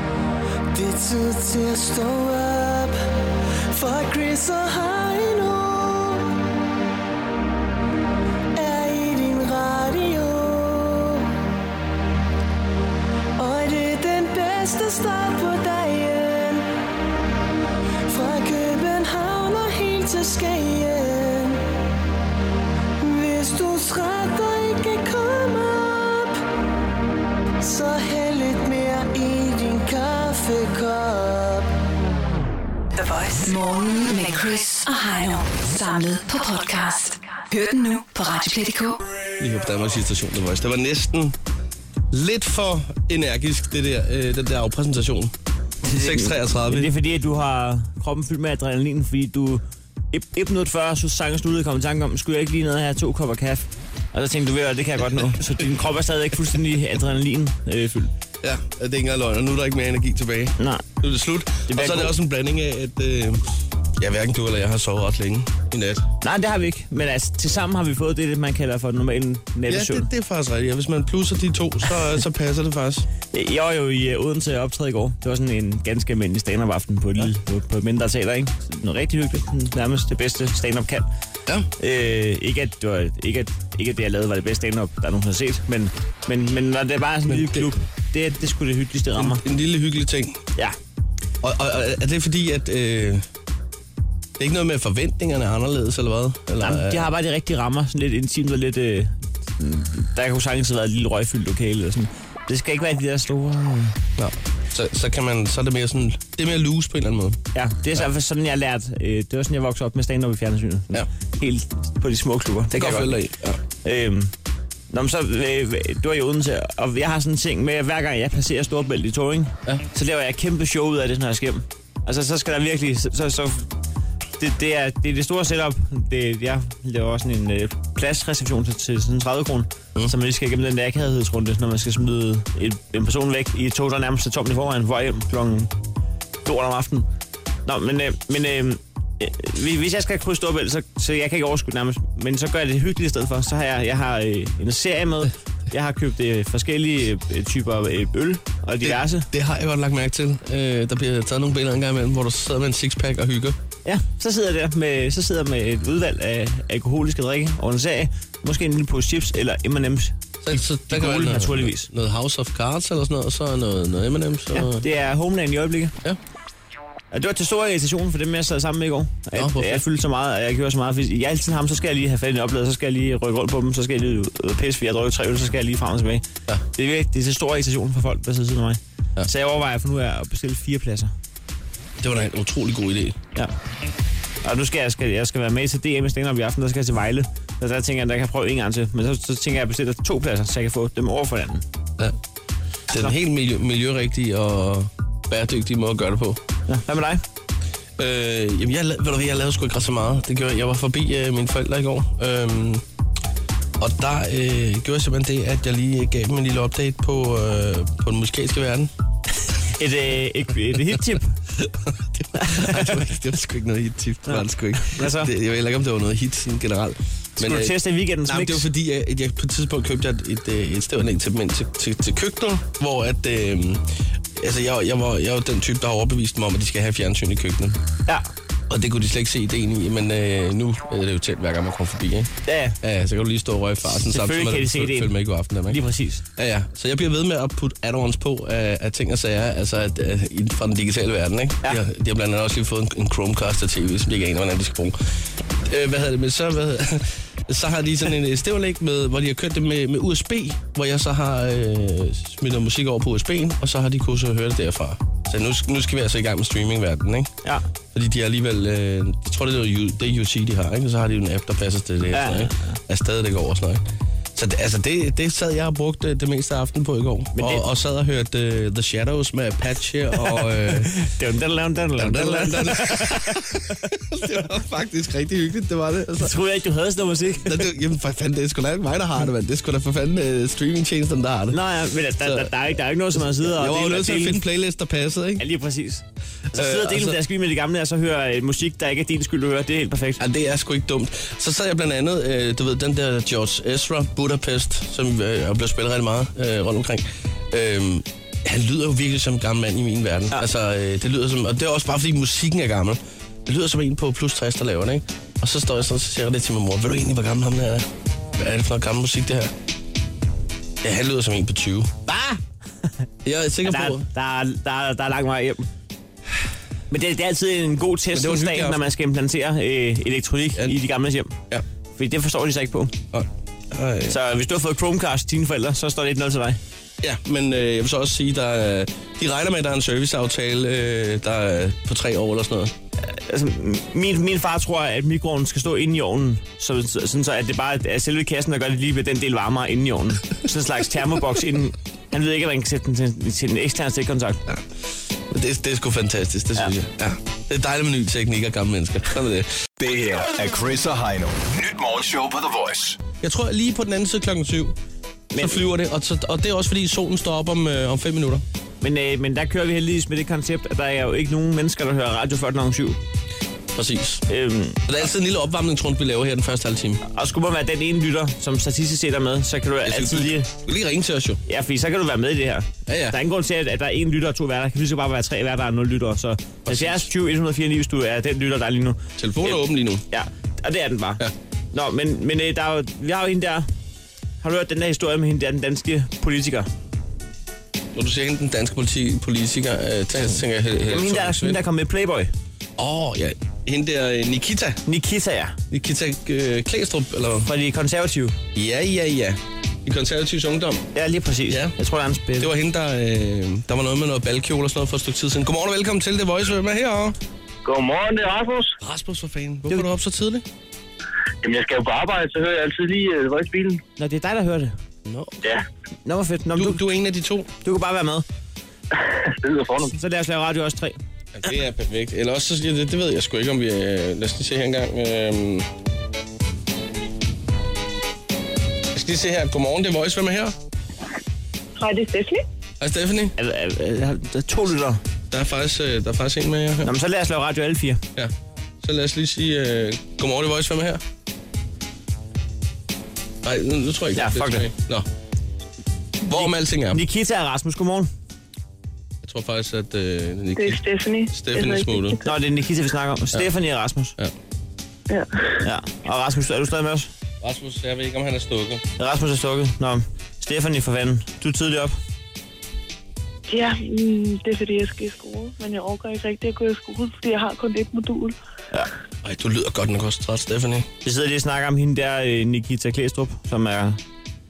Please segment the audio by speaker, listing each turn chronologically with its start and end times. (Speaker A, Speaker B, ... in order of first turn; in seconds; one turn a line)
Speaker A: 0.7-3.0
Speaker A: 3.7-6.3
Speaker A: 8.6-11.3
Speaker A: 13.4-16.7
Speaker A: 18.1-21.6
Speaker A: 23.0-26.4
Speaker A: 27.6-31.7
Speaker B: 32.9-39.0
Speaker C: 39.4-41.4
Speaker C: 42.1-45.3
Speaker D: 45.9-58.1
Speaker C: 45.9-46.9
Speaker C: 58.4-63.4
Speaker D: 60.6-60.9
Speaker D: 61.7-62.1
Speaker C: 64.0-66.0
Speaker D: 66.2-70.1
Speaker C: 69.7-73.1
Speaker D: 73.3-81.1
Speaker D: 81.8-89.4
Speaker C: 87.3-87.7
Speaker C: 89.2-90.4
Speaker C: 91.4-93.2
Speaker C: 94.4-97.1
Speaker D: 96.6-104.0
Speaker C: 104.2-107.4
Speaker D: 107.5-113.1
Speaker C: 112.7-113.6
Speaker D: 113.8-114.3
Speaker D: 114.9-123.7
Speaker D: 124.4-135.7
Speaker D: 136.4-137.1
Speaker D: 137.7-149.3
Speaker C: 148.8-153.6
Speaker D: 153.8-161.9
Speaker C: 160.4-164.8
Speaker D: 164.5-165.9
Speaker D: 167.1-181.1
Speaker C: 169.3-169.8
Speaker C: 182.0-183.2
Speaker D: 184.4-191.6
Speaker C: 192.9-196.4
Speaker D: 196.7-197.2
Speaker C: 198.0-202.8
Speaker C: 203.8-208.9
Speaker D: 209.6-211.4
Speaker C: 211.6-217.8
Speaker D: 212.4-213.0
Speaker D: 214.3-215.3
Speaker D: 217.4-218.7
Speaker C: 218.3-223.8
Speaker C: 224.4-227.8
Speaker C: 228.7-232.3
Speaker D: 232.5-232.8
Speaker C: 232.8-235.8
Speaker D: 234.0-235.2
Speaker D: 235.7-236.2
Speaker C: 236.4-244.9
Speaker C: 245.7-257.3
Speaker C: 257.9-263.8
Speaker D: 262.1-262.8
Speaker C: 264.4-270.9
Speaker D: 267.4-267.6
Speaker D: 270.3-273.8
Speaker C: 272.0-276.3
Speaker D: 276.2-277.7
Speaker C: 277.4-281.6
Speaker D: 281.5-284.4
Speaker C: 282.2-282.5
Speaker C: 283.4-285.4
Speaker D: 285.4-290.2
Speaker C: 286.5-287.2
Speaker C: 290.2-309.5
Speaker C: 310.8-311.9
Speaker D: 312.1-312.4
Speaker C: 313.2-314.1
Speaker D: 313.6-315.7
Speaker D: 316.9-321.4
Speaker C: 318.1-318.8
Speaker D: 321.9-322.9
Speaker C: 323.1-324.1
Speaker D: 324.1-326.6
Speaker C: 327.0-332.7
Speaker D: 333.1-344.4
Speaker C: 345.3-349.5
Speaker E: 349.8-353.0
Speaker C: 353.2-354.8
Speaker D: 355.3-355.6
Speaker C: 355.4-358.4
Speaker D: 358.8-363.0
Speaker C: 363.8-364.2
Speaker D: 364.3-364.8
Speaker C: 364.9-367.0
Speaker D: 367.1-370.5
Speaker C: 369.9-371.4
Speaker D: 371.5-383.7
Speaker C: 372.9-373.2
Speaker C: 376.7-377.1
Speaker C: 379.2-380.0
Speaker D: 384.4-386.7
Speaker C: 387.9-391.6
Speaker D: 390.9-392.3
Speaker C: 392.8-394.8
Speaker D: 394.9-395.6
Speaker C: 395.7-397.5
Speaker D: 397.5-398.4
Speaker C: 398.6-400.9
Speaker D: 400.9-402.5
Speaker C: 401.5-401.8
Speaker C: 402.4-407.2
Speaker F: 407.6-408.8
Speaker C: 408.8-410.4
Speaker F: 411.4-413.8
Speaker D: 414.0-414.7
Speaker C: 415.1-415.4
Speaker D: 416.1-416.8
Speaker C: 416.6-417.5
Speaker D: 417.6-418.2
Speaker F: 419.0-419.9
Speaker D: 420.0-421.0
Speaker C: 421.4-425.7
Speaker C: 428.9-430.6
Speaker G: 431.8-432.4
Speaker C: 432.8-433.3
Speaker D: 433.4-435.0
Speaker C: 435.3-436.9
Speaker D: 436.8-438.0
Speaker C: 438.8-441.0
Speaker C: 443.4-445.1
Speaker D: 444.2-444.6
Speaker C: 446.3-447.0
Speaker D: 446.3-448.1
Speaker C: 449.2-452.2
Speaker G: 450.6-452.2
Speaker D: 452.2-454.2
Speaker G: 455.1-455.6
Speaker D: 455.6-457.1
Speaker C: 457.4-458.8
Speaker D: 459.0-461.9
Speaker G: 463.5-468.4
Speaker C: 469.2-470.9
Speaker D: 471.1-474.0